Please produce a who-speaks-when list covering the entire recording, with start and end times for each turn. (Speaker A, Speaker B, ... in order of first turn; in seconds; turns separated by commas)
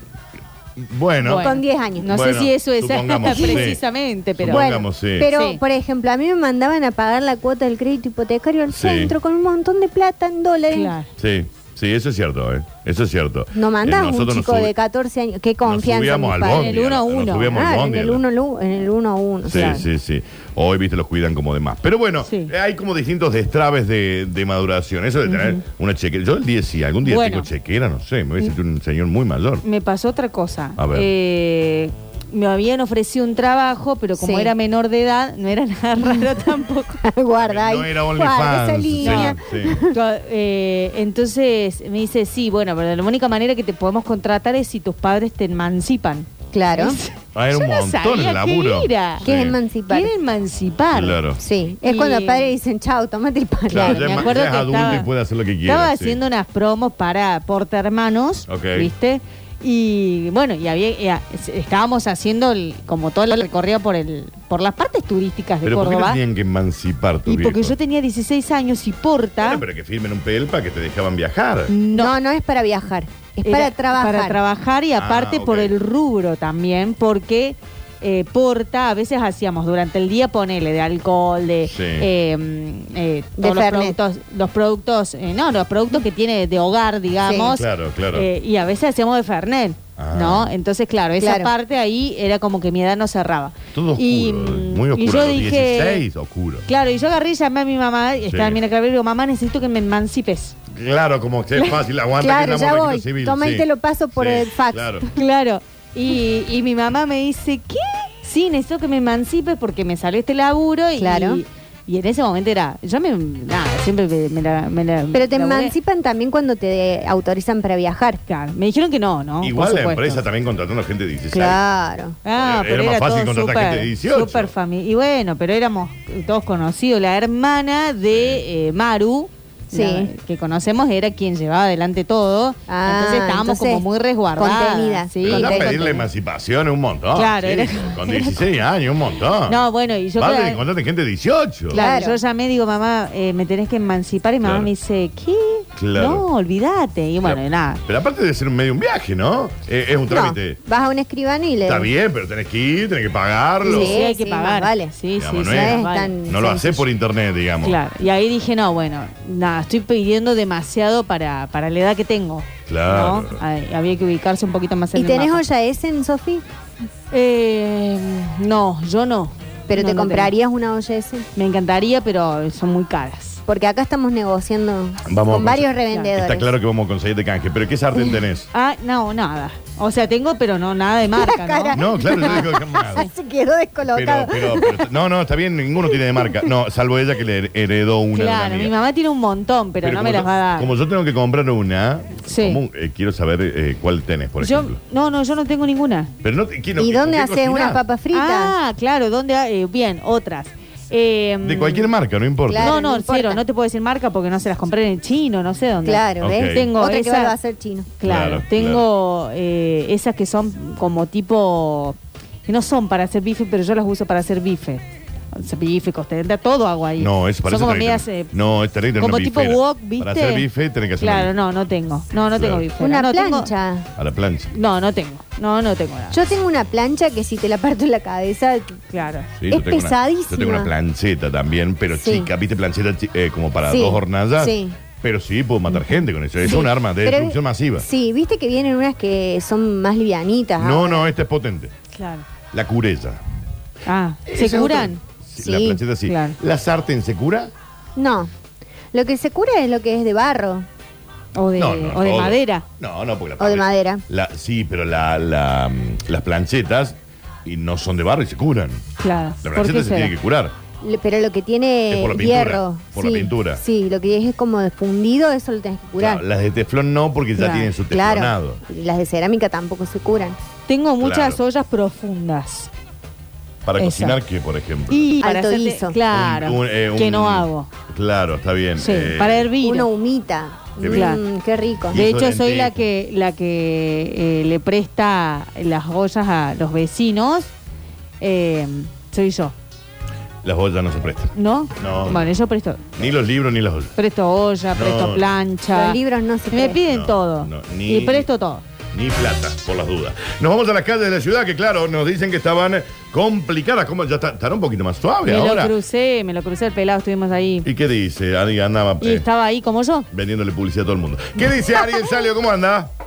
Speaker A: 0.8-1.4, Speaker B: 1.2-4.7, Speaker C: 1.3-2.1, Speaker A: 2.1-3.8, Speaker C: 3.3-3.6, Speaker A: 4.4-5.3, Speaker C: 4.5-10.9, Speaker B: 5.3-5.6, Speaker A: 8.7-9.1, Speaker B: 10.7-11.1, Speaker A: 11.2-14.7, Speaker C: 13.5-16.7, Speaker A: 15.6-18.2, Speaker B: 16.4-17.6, Speaker C: 17.5-19.8, Speaker A: 19.4-29.6, Speaker B: 19.5-19.9, Speaker B: 22.2-22.5, Speaker B: 25.2-25.6, Speaker B: 27.0-27.5, Speaker B: 29.6-37.0, Speaker A: 30.8-31.1, Speaker C: 34.2-34.5, Speaker C: 36.0-36.4, Speaker C: 37.0-39.9, Speaker A: 37.4-39.9, Speaker B: 39.0-39.4, Speaker B: 39.9-51.2, Speaker C: 46.5-47.0, Speaker A: 47.3-49.5, Speaker C: 49.2-50.1, Speaker A: 50.9-51.4, Speaker C: 51.4-54.3, Speaker B: 51.8-52.5, Speaker A: 53.7-56.2, Speaker B: 53.7-55.1, Speaker B: 55.6-66.2, Speaker A: 58.5-58.9, Speaker A: 65.6-67.7, Speaker B: 67.2-69.6, Speaker A: 69.4-71.7, Speaker B: 71.7-72.1, Speaker C: 71.9-74.4, Speaker B: 73.4-96.0, Speaker A: 75.0-75.7, Speaker A: 81.7-82.1, Speaker C: 83.4-84.0, Speaker C: 87.2-87.5, Speaker A: 87.5-88.3, Speaker A: 90.0-90.5, Speaker C: 91.2-91.5, Speaker A: 93.7-96.7, Speaker B: 96.7-100.5, Speaker A: 98.3-98.6, Speaker A: 100.7-105.1, Speaker C: 102.2-105.1, Speaker B: 105.1-115.7, Speaker C: 111.0-111.4, Speaker C: 115.1-118.2, Speaker B: 118.3-120.2, Speaker A: 119.4-121.6, Speaker C: 121.3-122.2, Speaker B: 122.2-136.0, Speaker A: 122.3-124.5, Speaker A: 128.1-128.4, Speaker C: 129.7-130.1, Speaker C: 132.7-136.0, Speaker A: 135.2-139.6, Speaker B: 137.1-138.4, Speaker B: 139.5-140.6, Speaker A: 140.2-141.8, Speaker C: 141.7-142.2, Speaker B: 141.7-147.8, Speaker A: 144.4-144.7, Speaker A: 145.8-146.2, Speaker A: 147.2-150.6, Speaker C: 150.1-151.9, Speaker A: 151.7-154.0, Speaker C: 153.6-154.9, Speaker B: 153.6-156.1, Speaker A: 155.2-157.8, Speaker C: 155.5-156.8, Speaker B: 157.6-165.4, Speaker A: 162.7-163.4, Speaker C: 164.9-166.4, Speaker B: 167.1-170.3, Speaker C: 169.7-171.3, Speaker B: 171.3-173.4, Speaker C: 173.5-176.5, Speaker A: 175.1-178.5, Speaker B: 178.5-183.1, Speaker C: 181.1-184.9, Speaker A: 181.7-183.1, Speaker A: 183.8-188.7, Speaker C: 186.0-186.5, Speaker B: 188.1-190.7, Speaker A: 189.8-194.8, Speaker B: 192.3-192.6, Speaker B: 194.4-196.1, Speaker A: 196.2-197.8, Speaker C: 196.8-198.5, Speaker B: 198.1-201.9, Speaker A: 201.4-202.8, Speaker C: 202.5-203.4, Speaker B: 202.6-207.3, Speaker C: 205.8-207.9, Speaker A: 206.2-206.7, Speaker B: 208.0-218.3, Speaker A: 208.0-208.8, Speaker A: 217.0-221.3, Speaker B: 219.0-220.4, Speaker B: 221.0-223.5, Speaker A: 222.3-222.7, Speaker C: 222.8-223.9, Speaker A: 224.0-224.5, Speaker B: 224.5-226.2, Speaker C: 226.1-228.8, Speaker B: 228.9-229.3, Speaker A: 229.4-237.8, Speaker C: 229.5-230.7, Speaker C: 231.9-232.3, Speaker C: 233.7-234.8, Speaker C: 236.4-241.1, Speaker A: 240.6-241.7, Speaker B: 241.9-242.2, Speaker A: 242.5-243.2, Speaker B: 243.8-245.0, Speaker A: 244.2-247.5, Speaker C: 245.4-245.8, Speaker B: 246.1-246.4, Speaker C: 247.9-248.3, Speaker C: 248.9-250.7, Speaker B: 251.3-252.6, Speaker A: 251.6-258.8, Speaker C: 253.4-254.0, Speaker B: 259.0-260.1, Speaker A: 259.4-260.5, Speaker C: 260.8-266.2, Speaker A: 261.9-263.6, Speaker A: 266.0-268.6, Speaker B: 267.4-267.7, Speaker C: 267.9-270.4, Speaker B: 270.7-272.7, Speaker A: 271.0-271.4, Speaker A: 273.6-275.1, Speaker B: 273.8-274.2, Speaker B: 274.9-277.7, Speaker C: 275.2-276.0, Speaker A: 276.1-279.5, Speaker B: 278.8-279.9, Speaker C: 279.6-282.0, Speaker A: 280.8-281.1, Speaker B: 280.9-281.2, Speaker A: 281.9-282.8, Speaker B: 281.9-287.5, Speaker B: 288.2-289.5, Speaker A: 290.4-292.3, Speaker B: 291.3-292.8, Speaker A: 293.0-293.9, Speaker B: 293.9-296.0, Speaker A: 294.7-295.2, Speaker C: 295.7-296.8, Speaker B: 296.5-298.6, Speaker A: 296.8-298.3, Speaker A: 298.9-305.7, Speaker B: 305.2-307.7, Speaker A: 307.6-309.2, Speaker B: 309.0-310.1, Speaker A: 310.1-312.9